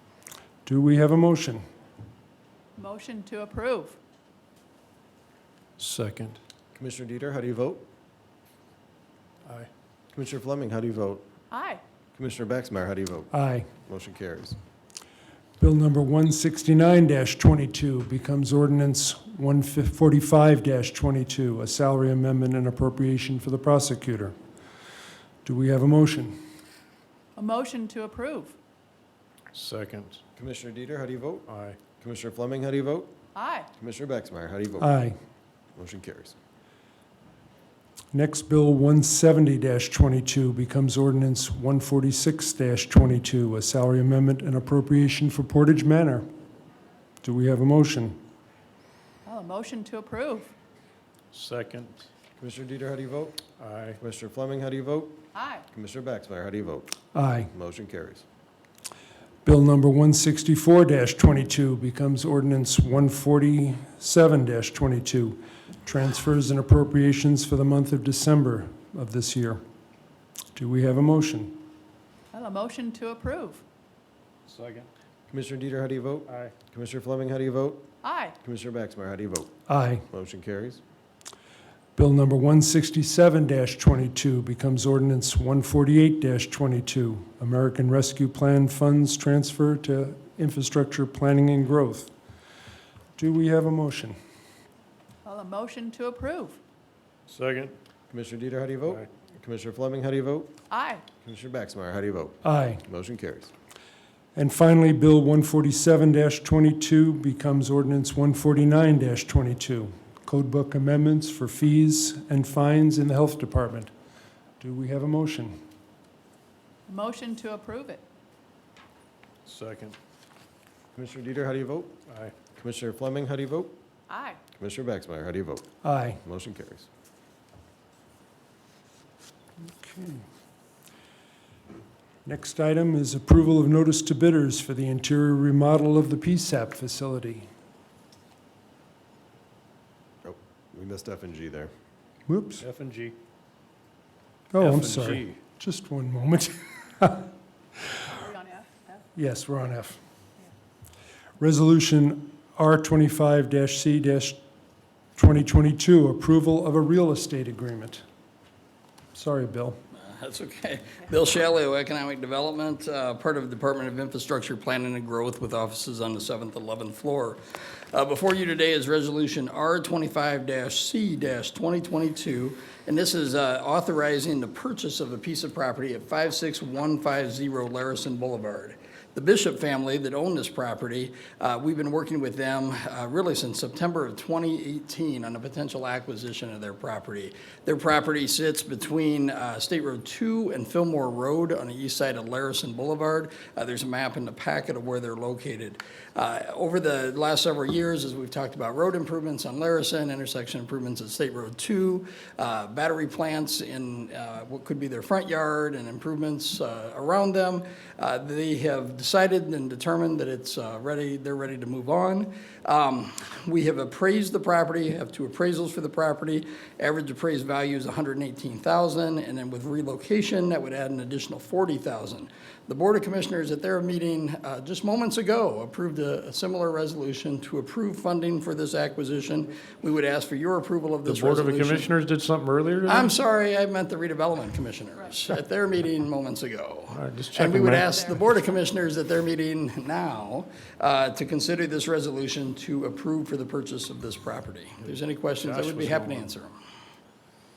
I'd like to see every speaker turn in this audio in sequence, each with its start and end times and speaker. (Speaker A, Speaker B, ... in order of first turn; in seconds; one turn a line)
Speaker A: 0.7-1.6
Speaker B: 2.8-4.0
Speaker C: 5.8-6.4
Speaker D: 6.8-7.8
Speaker D: 10.1-11.2
Speaker B: 11.5-11.8
Speaker D: 12.2-13.3
Speaker A: 13.3-13.7
Speaker D: 13.8-14.6
Speaker A: 15.6-24.4
Speaker A: 25.4-26.4
Speaker B: 27.4-28.6
Speaker C: 29.5-30.2
Speaker D: 30.4-33.1
Speaker C: 31.5-31.8
Speaker B: 33.4-33.7
Speaker D: 33.8-34.9
Speaker A: 34.8-35.2
Speaker D: 35.8-36.4
Speaker A: 38.1-46.3
Speaker A: 47.2-48.2
Speaker B: 49.3-50.5
Speaker C: 51.3-52.1
Speaker D: 52.4-53.4
Speaker C: 53.6-54.0
Speaker D: 54.0-55.2
Speaker B: 55.3-55.6
Speaker D: 55.7-56.9
Speaker A: 57.1-57.5
Speaker D: 57.5-58.2
Speaker A: 59.5-69.6
Speaker A: 70.5-71.6
Speaker B: 72.3-73.6
Speaker C: 74.5-74.9
Speaker D: 75.3-77.8
Speaker C: 76.3-76.5
Speaker B: 78.0-78.4
Speaker D: 78.4-79.5
Speaker A: 79.7-80.0
Speaker D: 80.1-80.8
Speaker A: 82.0-92.1
Speaker A: 93.2-94.2
Speaker B: 95.2-96.6
Speaker C: 97.3-97.8
Speaker D: 98.1-100.5
Speaker B: 100.7-101.0
Speaker D: 101.2-103.5
Speaker A: 102.4-102.8
Speaker A: 104.4-113.9
Speaker A: 114.6-115.6
Speaker B: 116.9-118.0
Speaker C: 119.5-120.0
Speaker D: 121.0-121.9
Speaker C: 122.1-122.3
Speaker D: 122.5-123.7
Speaker B: 124.1-124.4
Speaker D: 124.6-125.6
Speaker A: 125.8-126.2
Speaker D: 126.2-126.9
Speaker A: 129.8-130.2
Speaker A: 132.2-137.5
Speaker D: 140.2-141.7
Speaker A: 142.3-142.7
Speaker C: 142.6-143.2
Speaker A: 144.5-147.3
Speaker C: 144.6-145.4
Speaker B: 148.2-148.8
Speaker A: 149.2-150.0
Speaker A: 151.4-154.4
Speaker A: 155.2-158.0
Speaker A: 159.1-159.8
Speaker E: 159.9-231.9
Speaker C: 231.1-233.1
Speaker E: 232.9-246.6
Speaker C: 236.9-237.9
Speaker C: 245.4-246.3